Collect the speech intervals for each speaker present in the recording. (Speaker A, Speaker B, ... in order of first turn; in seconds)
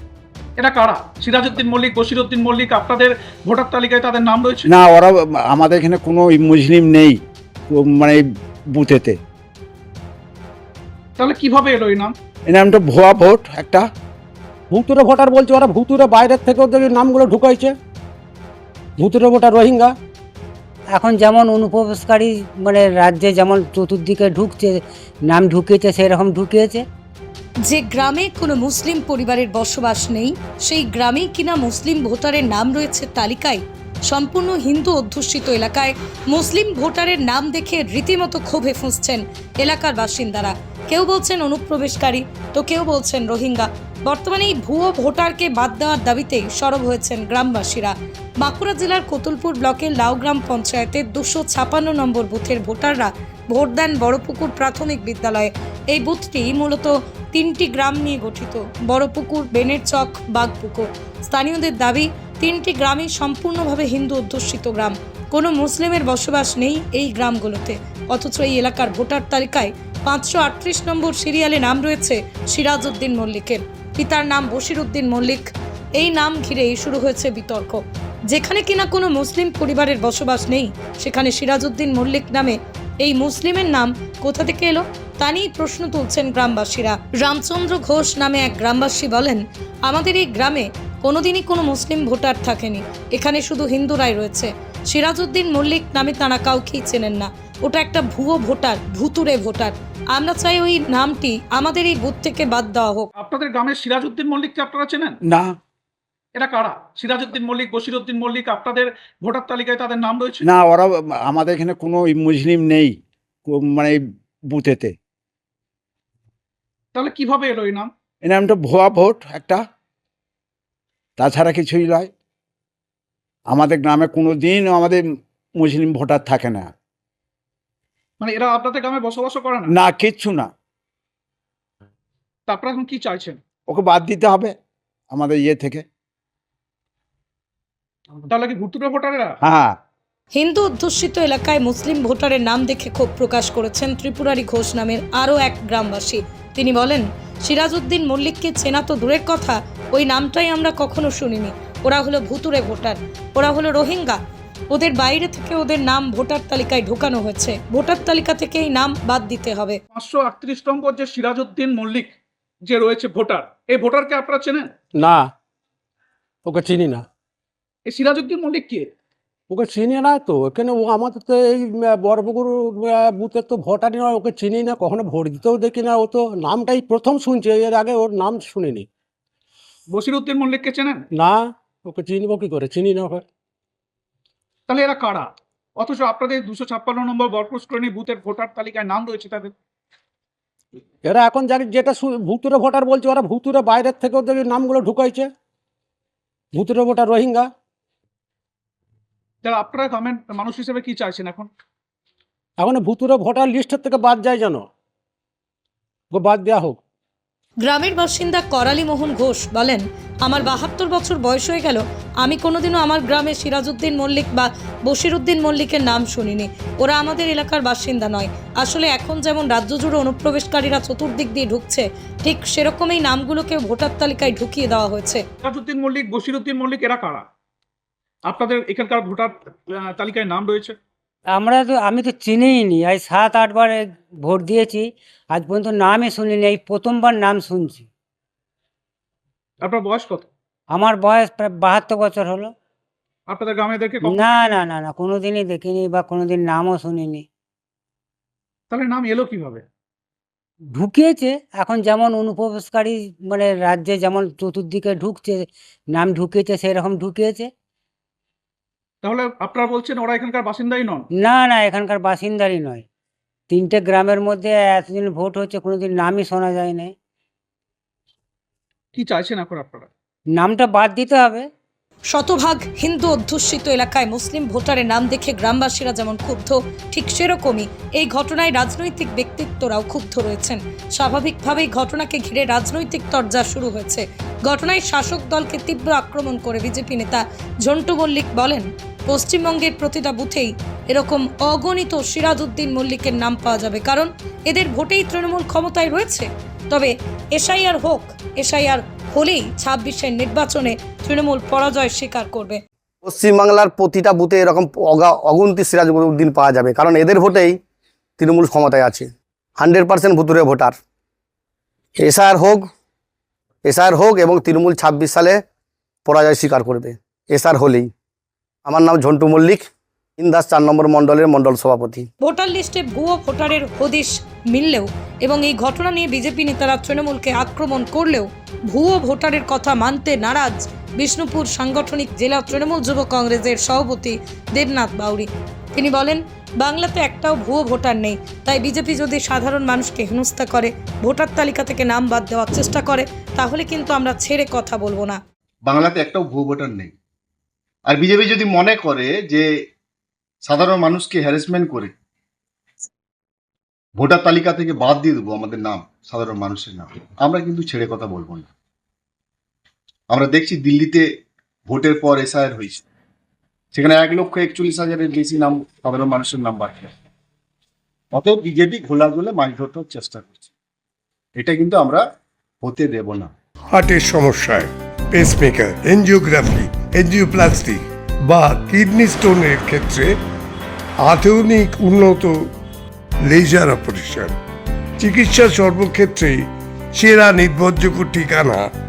Speaker A: 0.6-4.7, 11.2-12.1, 103.2-105.2, 106.3-110.4, 116.9-117.9, 128.2-129.7, 132.5-133.4, 138.3-139.3, 159.9-162.1, 162.7-164.7, 167.8-168.9, 179.9-181.0, 184.7-189.5, 199.4-201.5, 225.4-227.2, 228.3-230.8, 239.6-240.3, 243.3-244.6, 248.7-249.6, 259.0-261.1, 268.9-269.9
Speaker B: 4.7-7.2, 7.7-9.2, 12.5-13.9, 105.3-105.5, 110.4-115.0, 118.2-119.6, 121.2-122.1, 123.5-125.0, 125.6-126.7, 129.7-130.5, 133.7-134.5, 135.1-135.8, 139.4-139.7, 373.7-380.1, 381.0-382.3, 383.3-384.3, 385.0-386.4, 386.9-388.6
Speaker C: 14.7-17.7, 19.0-19.9, 166.4-167.0, 169.5-178.8, 181.2-183.2, 191.1-195.3, 196.6-197.4, 202.6-204.6, 206.1-206.8
Speaker D: 20.9-26.8, 231.3-237.9, 240.7-242.5, 244.0-247.2, 250.7-257.5, 261.1-262.8, 263.5-266.9, 270.3-271.5
Speaker E: 27.6-103.1, 140.3-154.2, 154.7-159.8, 207.6-225.2, 272.1-302.6, 322.2-345.2
Speaker F: 303.0-307.6, 308.2-310.8, 312.0-312.7, 313.6-315.4, 316.0-317.9, 318.6-322.1
Speaker G: 345.6-346.9, 347.9-349.4, 350.4-351.9, 354.0-358.5, 360.1-361.1, 361.7-362.8, 363.7-366.9, 368.1-370.5, 371.4-372.0, 372.6-373.3